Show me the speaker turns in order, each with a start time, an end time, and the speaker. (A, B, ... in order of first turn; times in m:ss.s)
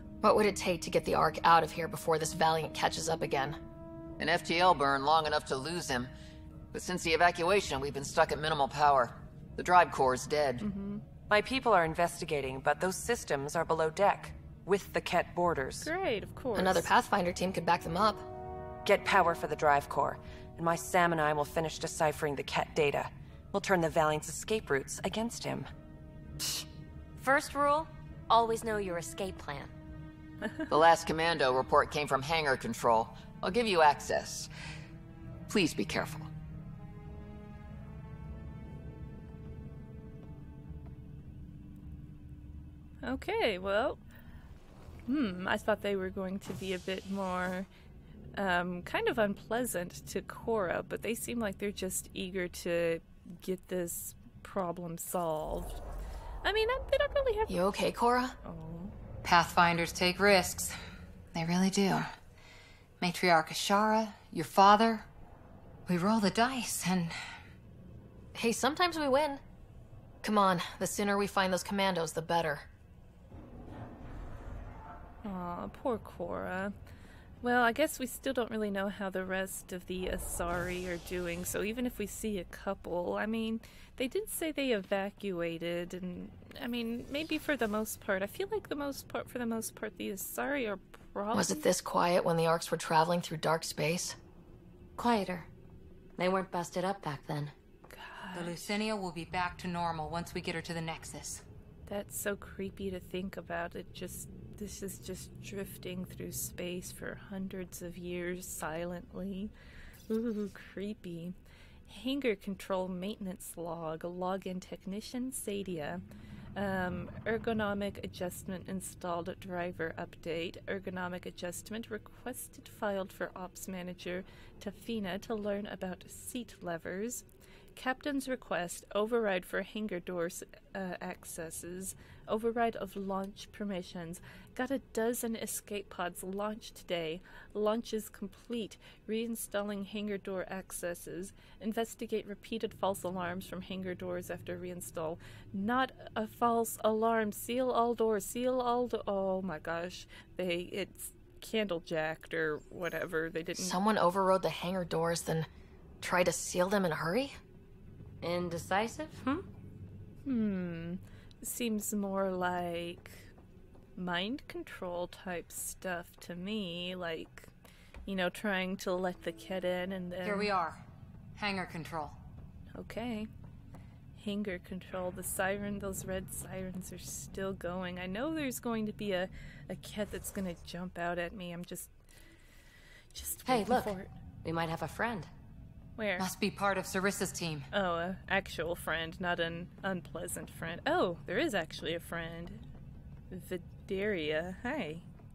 0:00.2-0:03.6 A
0:04.2-0:06.1 B
0:06.7-0:10.6 B
0:10.6-0:11.0 C
0:11.3-0:15.9 D
0:15.8-0:16.9 C
0:16.6-0:18.3 A
0:18.8-0:25.7 D
0:27.2-0:29.7 E
0:30.7-0:34.5 B
0:35.5-0:36.3 B
0:43.0-0:44.0 C
0:45.1-0:47.7 C
0:48.4-0:55.8 C
0:56.4-0:57.6 C
0:57.5-0:58.4 A
0:58.4-0:58.9 C
0:59.2-1:00.8 F
1:01.3-1:02.1 F
1:03.0-1:05.1 F
1:05.9-1:07.2 F
1:08.4-1:09.4 A
1:10.2-1:12.7 A
1:15.2-1:16.7 C
1:17.4-1:31.7 C
1:31.3-1:34.2 A
1:35.0-1:35.5 E
1:36.2-1:37.5 E
1:37.9-1:38.7 C
1:38.4-1:41.4 F
1:41.9-1:49.5 C
1:50.1-1:51.4 C
1:51.9-1:56.0 C
1:56.6-2:07.2 C
2:07.8-2:33.8 C
2:33.6-2:35.5 A
2:36.0-2:37.4 A
2:38.2-2:39.5 E
2:40.2-2:43.3 C
2:44.0-2:47.5 C
2:48.1-2:50.5 C
2:50.2-2:50.8 F
2:51.4-2:52.2 F
2:52.8-2:53.3 C
2:54.2-3:01.9 C
3:03.1-3:04.1 C
3:03.4-3:05.3 E
3:06.0-3:06.3 C
3:06.2-3:07.7 F
3:07.7-3:12.6 C
3:13.3-3:15.1 C